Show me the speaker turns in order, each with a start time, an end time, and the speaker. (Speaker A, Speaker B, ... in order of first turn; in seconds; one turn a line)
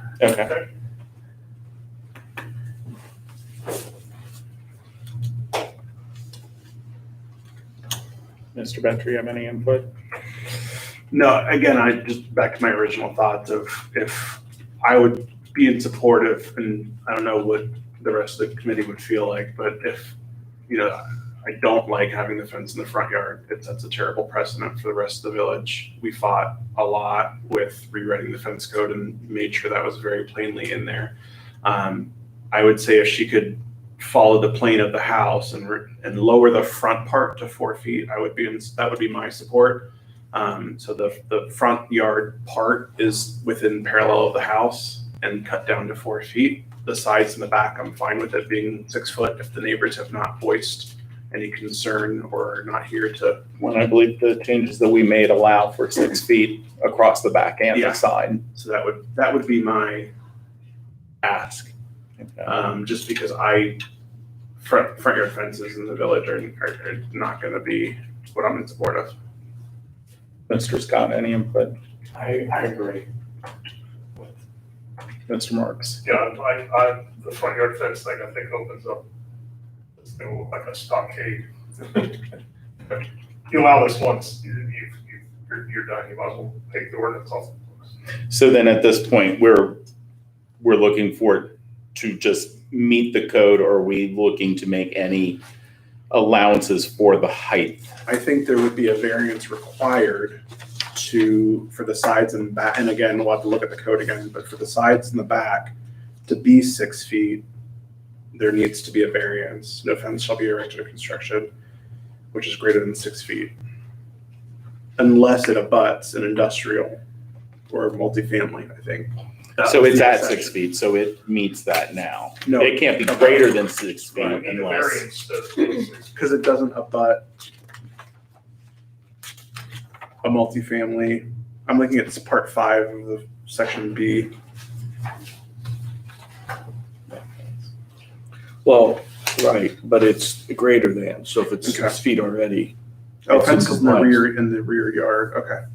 Speaker A: 0.2-0.6
Speaker A: 8.6-9.9
Speaker B: 11.1-20.1
Speaker B: 20.7-53.4
Speaker A: 53.6-58.4
Speaker B: 57.7-60.1
Speaker B: 61.2-61.7
Speaker A: 62.2-62.5
Speaker B: 62.4-63.8
Speaker B: 64.6-69.2
Speaker A: 70.5-71.8
Speaker A: 75.3-76.0
Speaker C: 76.0-79.1
Speaker C: 80.0-82.2
Speaker C: 82.9-87.9
Speaker A: 88.3-89.8
Speaker A: 90.6-95.4
Speaker A: 96.1-97.9
Speaker B: 98.1-100.4
Speaker B: 100.9-105.7
Speaker B: 106.3-107.4
Speaker B: 108.3-111.5
Speaker B: 112.3-113.5
Speaker B: 115.0-117.0
Speaker B: 117.7-120.6
Speaker A: 119.6-125.0
Speaker B: 122.5-123.6
Speaker C: 124.2-126.4
Speaker B: 126.2-127.2
Speaker B: 130.2-134.3
Speaker D: 138.6-142.8
Speaker B: 141.6-142.0
Speaker B: 143.3-145.6
Speaker D: 143.3-144.2